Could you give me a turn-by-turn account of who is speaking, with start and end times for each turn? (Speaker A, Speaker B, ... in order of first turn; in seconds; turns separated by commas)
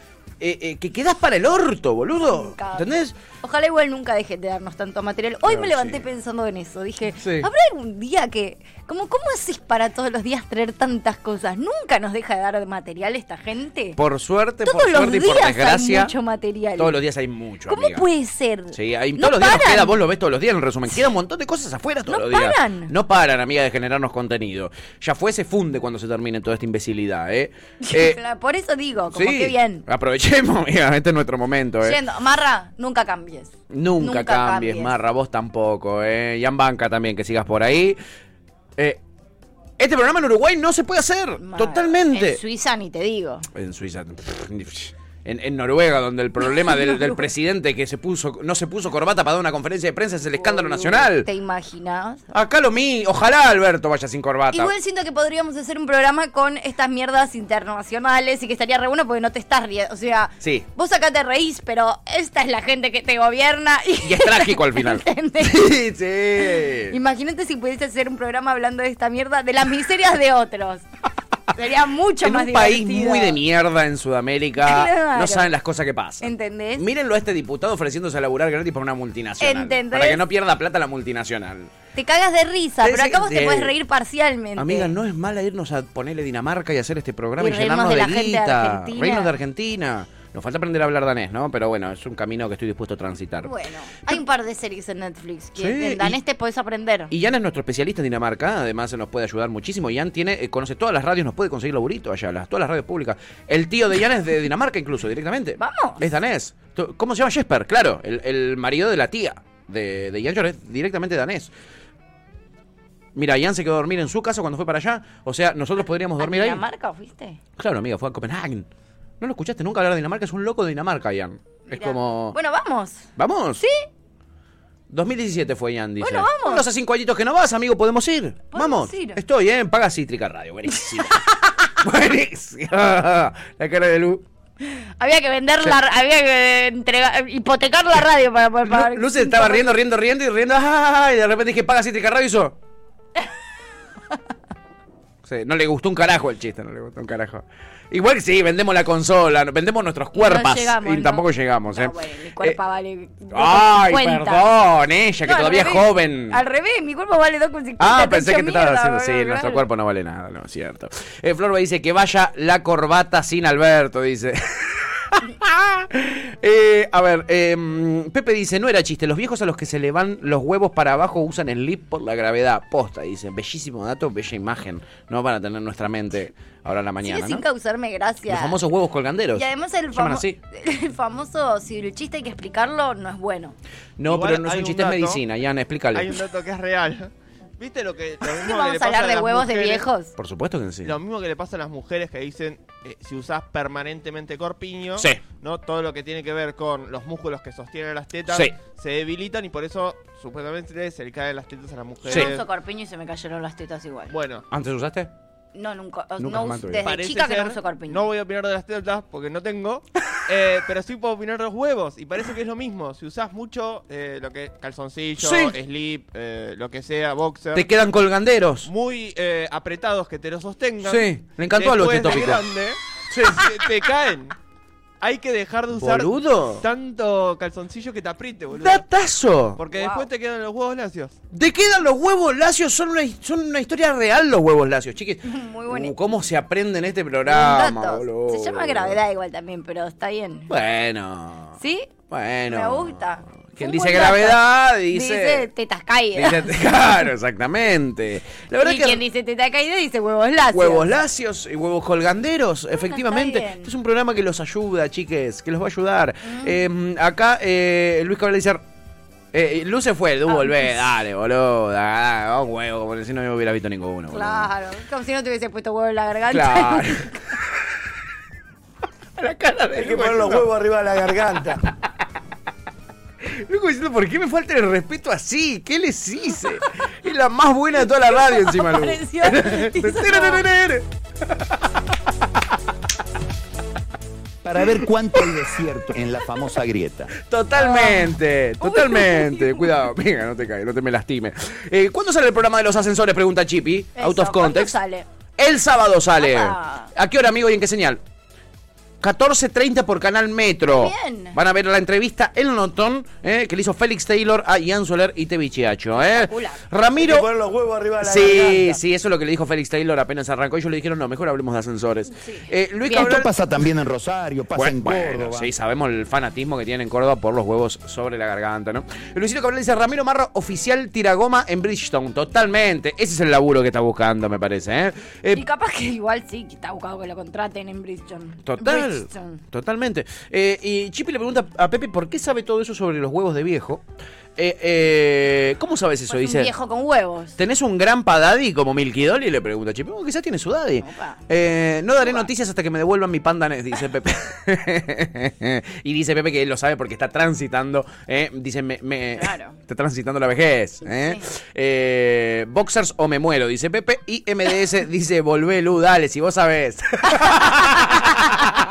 Speaker A: 0.4-3.2, Speaker B: 2.2-14.0, Speaker A: 5.5-6.0, Speaker A: 7.2-7.5, Speaker A: 14.0-16.1, Speaker B: 14.6-17.0, Speaker A: 16.8-18.1, Speaker B: 17.7-20.0, Speaker A: 18.7-28.2, Speaker B: 22.1-22.9, Speaker B: 27.8-29.8, Speaker A: 29.1-32.0, Speaker B: 31.8-34.9, Speaker A: 33.7-38.0, Speaker A: 39.8-42.4, Speaker B: 41.4-43.5, Speaker A: 43.5-51.3, Speaker B: 46.4-47.3, Speaker B: 50.4-52.3, Speaker A: 52.3-54.7, Speaker B: 54.5-65.7, Speaker A: 60.4-60.7, Speaker A: 64.0-67.0, Speaker B: 66.9-70.8, Speaker B: 71.5-73.4, Speaker A: 72.2-81.7, Speaker B: 74.6-75.5, Speaker B: 76.2-76.9, Speaker B: 79.4-80.2, Speaker B: 82.0-84.9, Speaker A: 82.8-83.7, Speaker A: 84.6-93.5, Speaker B: 87.4-89.3, Speaker B: 93.4-97.1, Speaker A: 95.6-96.2, Speaker A: 97.1-111.5, Speaker B: 105.6-106.1, Speaker A: 113.2-116.6, Speaker B: 116.2-117.4, Speaker A: 117.6-118.7, Speaker A: 119.2-122.4, Speaker B: 121.7-123.1, Speaker A: 123.2-123.6, Speaker B: 123.6-123.9, Speaker A: 124.9-134.2, Speaker B: 126.0-126.7, Speaker B: 128.5-129.2, Speaker B: 134.6-139.7, Speaker A: 138.7-142.6, Speaker A: 145.3-152.6, Speaker B: 150.1-154.5, Speaker A: 153.3-156.4, Speaker B: 155.3-159.7, Speaker A: 157.8-177.4, Speaker B: 177.0-178.6, Speaker A: 178.3-180.4, Speaker B: 179.3-183.6, Speaker A: 184.0-186.2, Speaker C: 184.1-185.2, Speaker C: 185.9-189.9, Speaker B: 188.3-190.1, Speaker A: 190.2-191.0, Speaker C: 190.8-202.4, Speaker A: 198.3-198.6, Speaker B: 202.1-204.2, Speaker C: 204.1-204.4, Speaker A: 204.5-205.1, Speaker B: 205.6-208.1, Speaker A: 206.2-206.9, Speaker C: 206.8-217.7, Speaker A: 215.2-215.6, Speaker A: 217.5-218.7, Speaker C: 218.7-224.3, Speaker A: 220.8-222.4, Speaker A: 223.1-223.5, Speaker C: 225.0-228.8, Speaker A: 225.8-226.7, Speaker A: 228.6-229.6, Speaker C: 229.6-231.2, Speaker B: 229.8-230.1, Speaker A: 231.3-239.0, Speaker B: 235.2-235.9, Speaker B: 237.3-240.5, Speaker A: 240.5-241.6, Speaker B: 241.6-241.9, Speaker A: 242.1-243.0, Speaker B: 242.5-246.6, Speaker A: 243.5-245.5, Speaker A: 246.2-249.0, Speaker B: 248.6-250.9, Speaker A: 250.5-258.6, Speaker B: 252.7-253.7, Speaker B: 256.2-256.6, Speaker A: 259.3-264.5, Speaker B: 260.3-260.9, Speaker B: 264.1-267.2, Speaker A: 266.3-267.1, Speaker A: 269.2-270.5, Speaker D: 269.8-271.6, Speaker A: 273.3-280.9, Speaker B: 277.9-280.4, Speaker E: 284.4-287.1, Speaker A: 287.2-294.8, Speaker B: 287.6-289.7, Speaker B: 294.0-295.1, Speaker A: 295.4-298.0, Speaker B: 296.2-296.9, Speaker A: 299.0-307.3, Speaker B: 300.7-301.4, Speaker B: 305.9-306.6, Speaker D: 307.0-308.8, Speaker A: 308.0-313.3, Speaker B: 312.2-313.2, Speaker E: 312.9-315.5, Speaker A: 314.6-325.4, Speaker B: 325.3-329.4, Speaker A: 328.5-333.8, Speaker A: 334.4-336.5, Speaker B: 336.1-337.4, Speaker A: 337.4-358.4, Speaker B: 340.8-341.2, Speaker B: 342.0-342.3, Speaker B: 349.2-349.6, Speaker B: 350.8-351.2